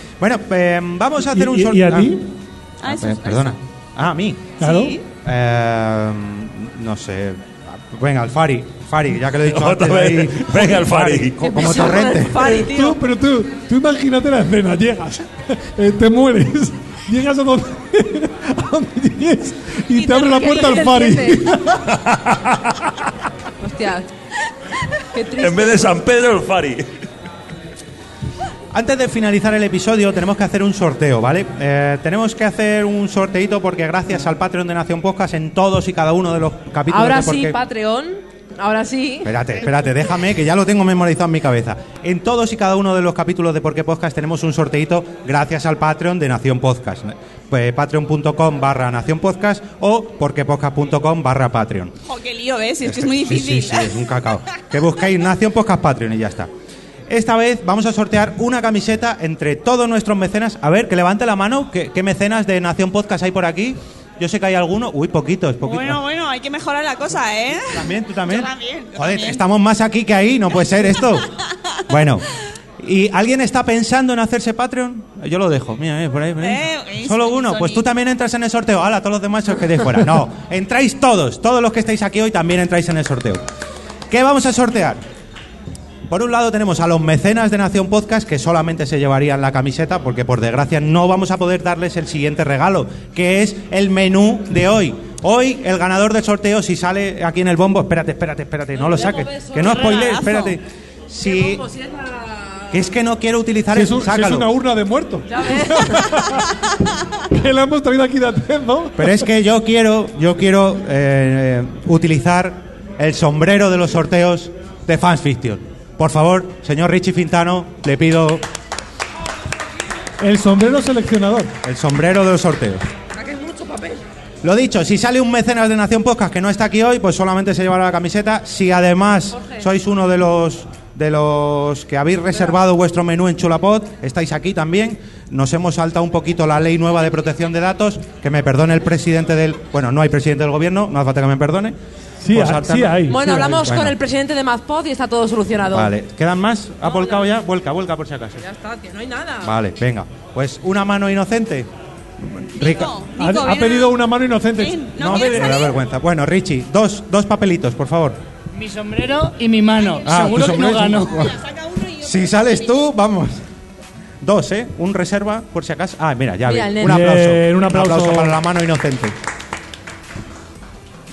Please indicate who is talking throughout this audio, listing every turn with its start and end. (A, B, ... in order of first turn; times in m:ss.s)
0:00.2-0:02.2 A
0:01.3-0:02.3 B
0:02.8-0:03.6 C
0:02.8-0:04.6 A
0:04.6-0:05.0 C
0:04.6-0:05.0 B
0:05.2-0:12.5 A
0:09.3-0:11.5 D
0:11.4-0:13.0 E
0:12.3-0:21.8 B
0:19.9-0:21.5 E
0:21.8-0:22.9 D
0:23.6-0:24.0 E
0:25.1-0:25.9 E
0:25.4-0:26.9 D
0:28.7-0:37.6 A
0:36.9-0:39.3 E
0:39.2-0:51.9 A
0:52.1-0:54.0 C
0:52.8-0:56.5 A
0:57.1-1:06.0 A
1:05.6-1:09.4 C
1:07.7-1:11.3 A
1:11.9-1:12.2 A
1:12.8-1:23.4 A
1:16.4-1:17.8 C
1:24.1-1:25.0 A
1:26.1-1:41.6 A
1:38.7-1:40.2 E
1:39.6-1:40.6 C
1:41.2-1:42.8 E
1:42.7-1:44.5 A
1:43.7-1:46.6 B
1:45.3-1:46.1 E
1:47.3-1:49.2 B
1:49.0-1:58.4 A
2:00.2-2:01.5 B
2:01.6-2:02.8 A
2:03.1-2:04.0 E
2:04.4-2:21.8 A
2:09.3-2:09.6 E
2:22.2-2:23.8 B
2:22.3-2:23.1 A
2:23.1-2:25.9 E
2:23.6-2:24.0 A
2:25.7-2:28.4 A
2:26.8-2:27.3 E
2:28.4-2:29.5 E
2:29.4-2:31.7 A
2:32.2-2:33.0 A
2:32.6-2:34.0 C
2:33.2-2:35.6 B
2:34.6-2:35.8 C
2:35.0-2:38.2 A
2:38.5-2:41.3 F
2:39.8-2:40.4 C
2:40.0-2:41.4 A
2:40.2-2:40.8 B
2:41.0-2:42.7 C
2:42.0-2:43.4 A
2:44.2-2:49.2 A
2:46.4-2:47.0 E
2:46.8-2:48.4 B